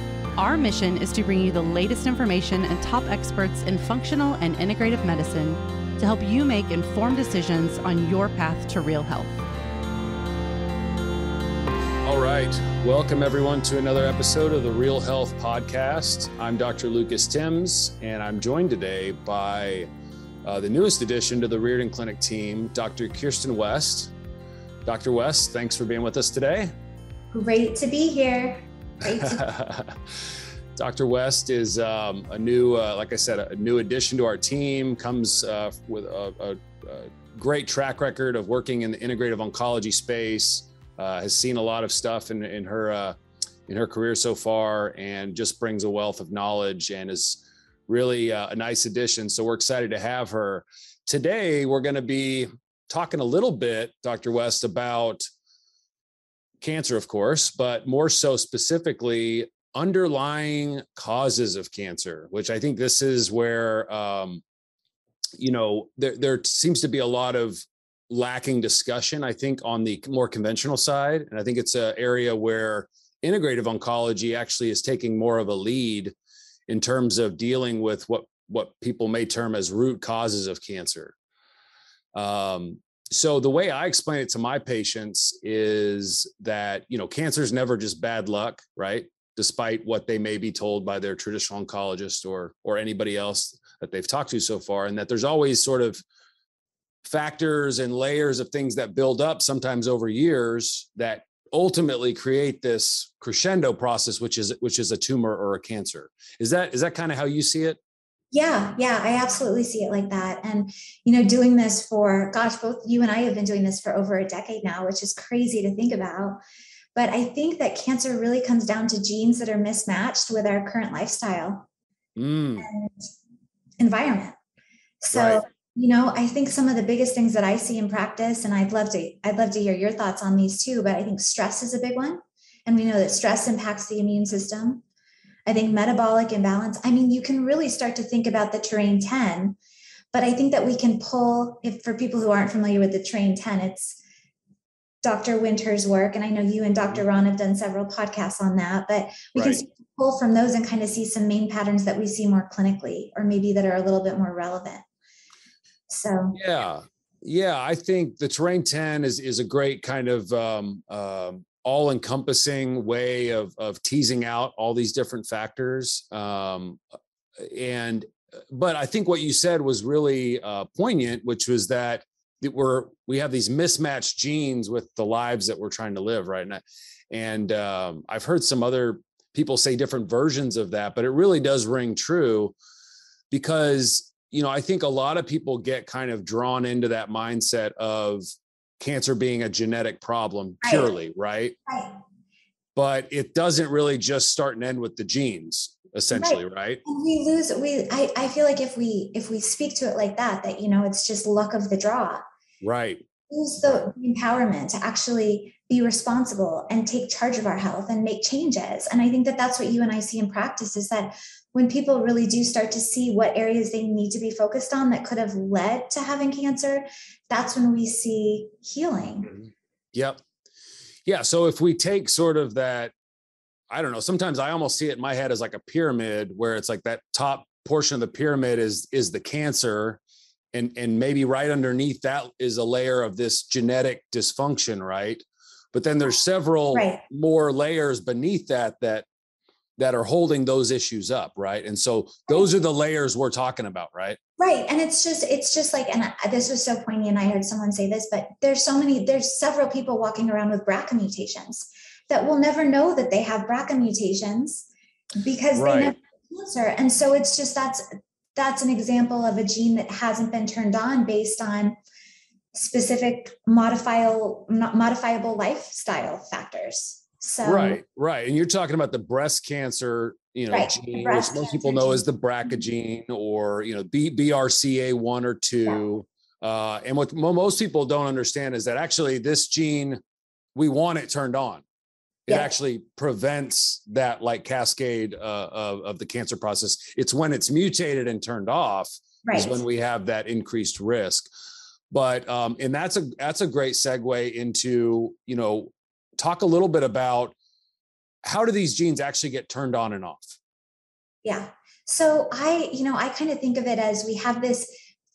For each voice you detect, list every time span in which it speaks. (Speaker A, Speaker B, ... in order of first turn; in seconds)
Speaker A: 0.4-9.4
Speaker B: 12.0-19.9, 20.4-24.1, 24.8-26.7, 29.3-30.0, 30.8-55.2, 56.6-64.4, 65.4-76.1, 76.7-81.1, 82.1-96.0, 97.0-107.8, 122.2-122.7, 125.1-125.4, 149.3-149.6, 156.3-166.8, 167.4-182.5, 183.3-191.6, 192.7-196.8, 202.6-203.0, 219.9-220.2, 221.1-222.9, 223.7-230.0, 230.5-239.1, 239.8-244.2, 255.6-255.9, 267.4-280.0, 280.5-281.6, 282.3-291.3, 291.9-297.3, 298.2-300.4
Speaker C: 27.3-29.4, 108.3-116.4, 116.9-121.7, 122.6-123.1, 123.8-124.4, 125.0-134.8, 135.4-139.6, 140.1-144.0, 145.0-154.8, 155.9-156.4, 190.6-191.0, 191.7-192.0, 196.1-202.2, 203.3-219.3, 236.7-237.0, 244.4-257.8, 258.4-261.8, 262.5-267.8, 270.5-272.0, 289.2-289.6, 301.2-304.7